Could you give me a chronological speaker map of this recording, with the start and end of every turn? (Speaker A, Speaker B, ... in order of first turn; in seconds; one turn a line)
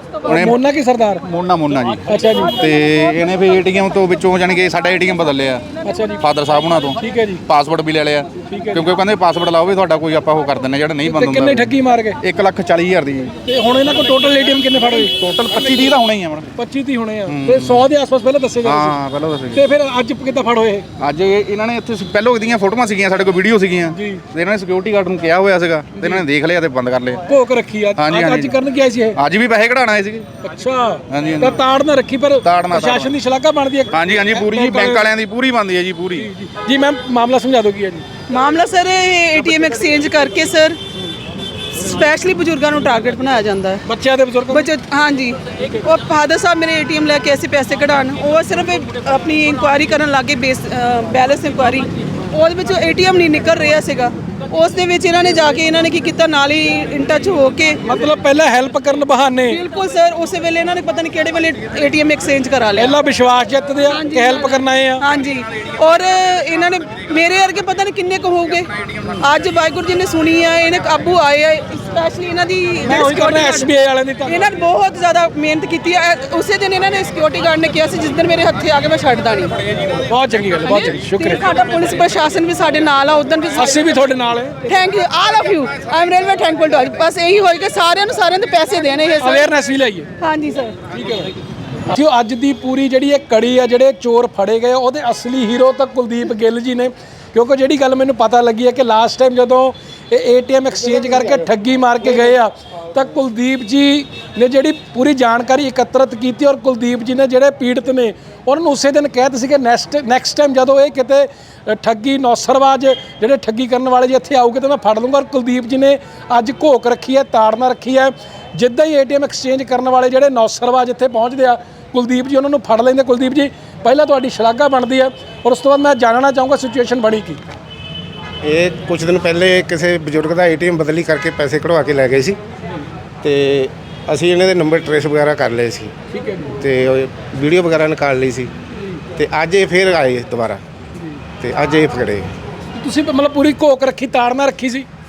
Speaker A: 0.2-1.2
Speaker B: 0.3-0.6
Speaker B: 1.2-5.6
Speaker A: 2.0-2.6
Speaker A: 5.8-6.2
Speaker B: 6.2-13.3
Speaker A: 7.0-7.4
Speaker A: 8.4-8.9
Speaker A: 11.0-12.2
Speaker A: 13.4-15.9
Speaker B: 15.1-16.5
Speaker A: 16.6-19.0
Speaker B: 17.3-17.8
Speaker B: 18.6-19.6
Speaker A: 19.5-20.9
Speaker B: 21.0-27.2
Speaker A: 23.9-24.2
Speaker A: 26.0-26.2
Speaker A: 27.3-29.2
Speaker B: 28.0-28.5
Speaker B: 29.2-30.2
Speaker A: 30.4-35.1
Speaker B: 31.1-31.6
Speaker B: 32.4-33.1
Speaker B: 33.9-36.3
Speaker A: 36.1-38.0
Speaker C: 38.3-40.8
Speaker C: 41.8-43.8
Speaker A: 43.9-44.7
Speaker C: 44.5-57.8
Speaker A: 57.8-59.6
Speaker C: 59.5-62.9
Speaker A: 62.8-65.0
Speaker C: 63.9-68.7
Speaker C: 69.2-73.7
Speaker A: 72.8-74.4
Speaker C: 74.2-79.8
Speaker A: 80.1-81.4
Speaker C: 80.6-84.0
Speaker A: 83.5-84.7
Speaker C: 84.6-89.5
Speaker A: 89.2-90.1
Speaker C: 90.2-90.8
Speaker A: 90.9-91.3
Speaker A: 91.8-127.4
Speaker D: 128.4-132.4
Speaker D: 133.2-135.9
Speaker A: 136.1-136.6
Speaker D: 136.6-138.5
Speaker A: 138.7-139.0
Speaker D: 139.2-140.6
Speaker D: 141.4-142.3
Speaker A: 142.7-144.9